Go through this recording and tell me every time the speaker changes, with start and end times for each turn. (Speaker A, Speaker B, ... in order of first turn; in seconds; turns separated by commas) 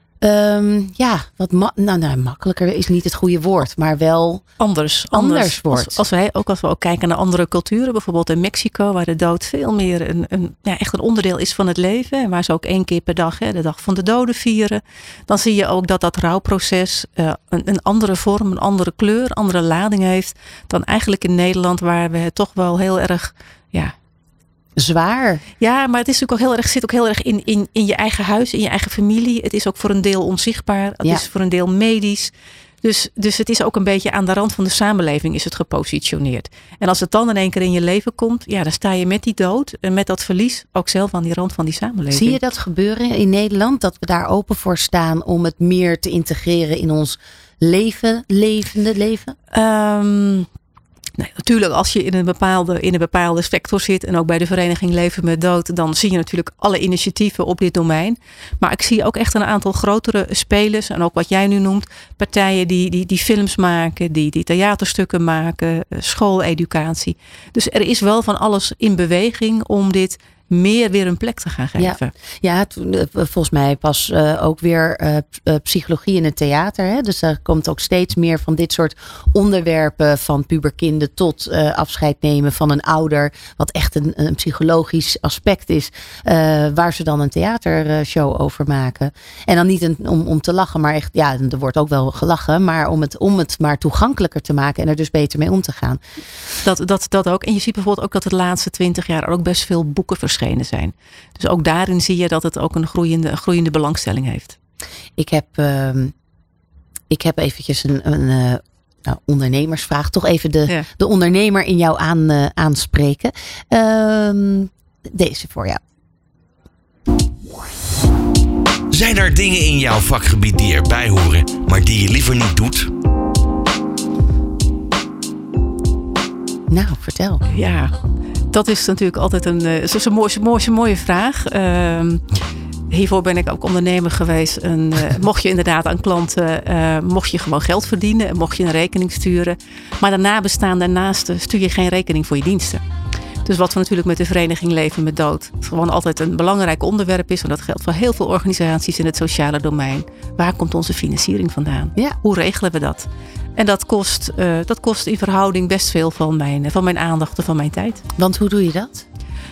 Speaker A: 0.2-4.5, Speaker B: 4.6-23.9, Speaker A: 5.1-6.0, Speaker A: 24.8-25.4, Speaker B: 25.6-32.3, Speaker B: 32.8-42.4, Speaker A: 42.1-49.3, Speaker B: 49.5-50.5, Speaker B: 51.2-72.1, Speaker A: 71.8-96.0, Speaker B: 96.6-104.6, Speaker A: 105.2-106.1, Speaker A: 107.1-115.8, Speaker C: 118.9-122.9, Speaker A: 126.7-127.4, Speaker B: 127.5-127.9, Speaker B: 128.5-132.2, Speaker B: 132.9-142.8, Speaker B: 143.4-158.0, Speaker A: 158.2-159.0